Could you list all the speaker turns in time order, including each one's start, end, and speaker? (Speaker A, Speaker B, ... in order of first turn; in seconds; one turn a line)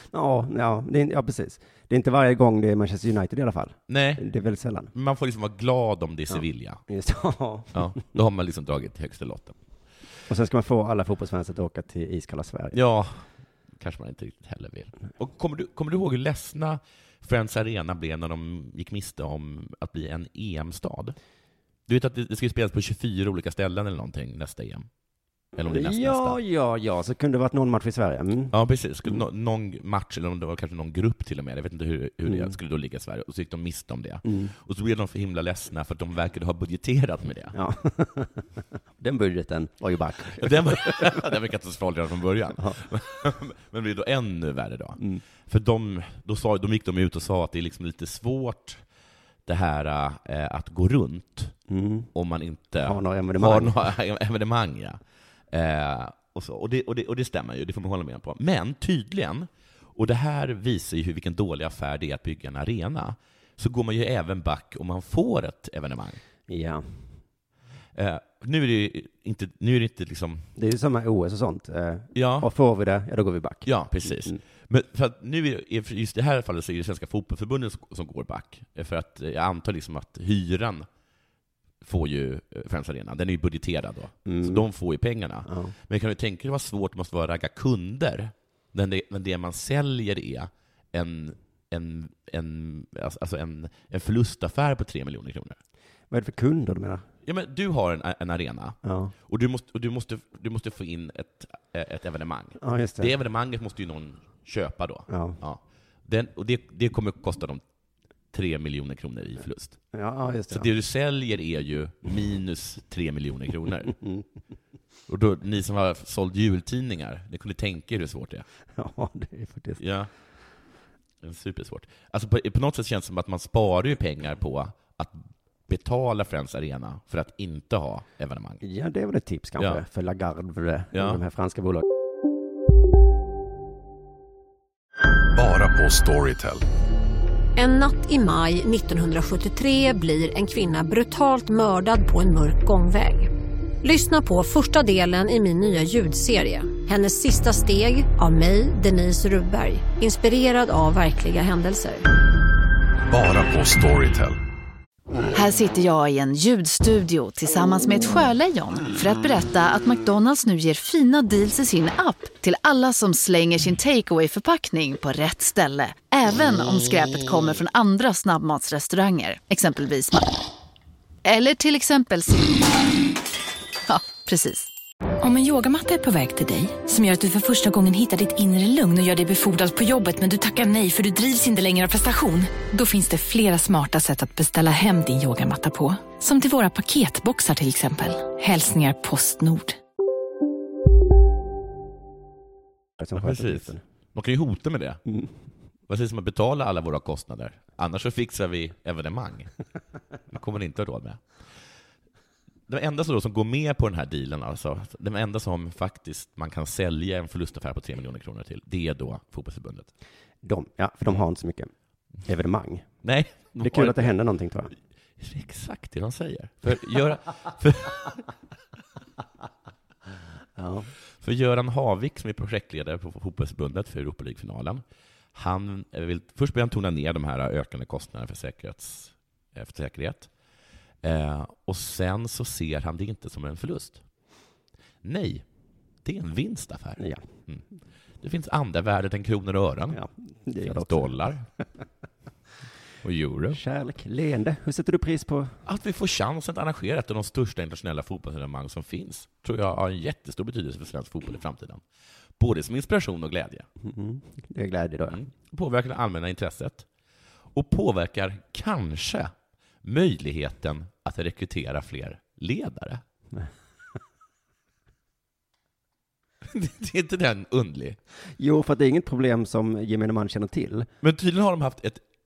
Speaker A: 0.1-4.9
Speaker B: 3.9-4.2
Speaker B: 4.9-6.8
Speaker A: 6.3-8.0
Speaker B: 7.7-9.6
Speaker A: 10.3-12.8
Speaker B: 12.7-21.2
Speaker B: 21.9-24.9
Speaker B: 25.6-26.4
Speaker A: 25.6-28.5
Speaker B: 28.5-37.6
Speaker A: 32.3-32.5
Speaker A: 34.2-34.5
Speaker A: 37.5-38.5
Speaker A: 39.0-41.2
Speaker B: 40.4-48.8
Speaker B: 49.5-51.5
Speaker A: 51.7-52.1
Speaker B: 52.1-55.0
Speaker A: 52.8-53.9
Speaker B: 55.5-66.2
Speaker A: 66.5-67.2
Speaker B: 68.0-70.5
Speaker A: 70.6-74.4
Speaker B: 72.1-72.5
Speaker B: 73.7-80.9
Speaker B: 81.8-95.6
Speaker A: 84.3-84.7
Speaker A: 85.5-85.7
Speaker A: 96.1-97.0
Speaker B: 97.2-107.6
Speaker A: 98.8-99.1
Speaker A: 102.6-103.1
Speaker A: 105.1-105.4
Speaker B: 108.3-109.8
Speaker A: 109.9-110.7
Speaker B: 110.5-114.0
Speaker B: 115.1-118.5
Speaker A: 118.8-119.8
Speaker B: 119.8-120.1
Speaker B: 121.2-128.6
Speaker A: 128.6-131.8
Speaker B: 130.9-131.2
Speaker C: 135.3-136.6
Speaker D: 137.6-143.3
Speaker D: 143.8-152.1
Speaker C: 153.1-154.4
Speaker E: 155.3-170.3
Speaker E: 171.2-172.7
Speaker E: 173.9-174.7
Speaker F: 175.2-189.7
Speaker A: 193.0-193.8
Speaker B: 193.2-195.0
Speaker B: 195.9-199.5
Speaker B: 200.3-201.2
Speaker B: 202.7-209.9
Speaker A: 210.4-211.7
Speaker A: 212.2-212.9
Speaker B: 213.0-214.2
Speaker A: 213.6-214.7
Speaker B: 215.2-218.2
Speaker A: 220.6-220.9
Speaker B: 221.2-224.8
Speaker B: 225.3-230.3
Speaker B: 231.0-234.0
Speaker B: 235.0-235.4
Speaker B: 236.0-237.6
Speaker A: 237.0-237.2
Speaker B: 238.2-240.0
Speaker A: 239.9-241.3
Speaker B: 240.6-241.5
Speaker B: 243.0-243.6
Speaker A: 243.5-245.6
Speaker B: 245.7-251.8
Speaker B: 252.4-253.7
Speaker A: 253.8-255.2
Speaker B: 255.1-256.9
Speaker B: 257.5-259.3
Speaker B: 259.8-263.0
Speaker B: 266.4-268.0
Speaker A: 268.4-270.9
Speaker B: 271.0-272.0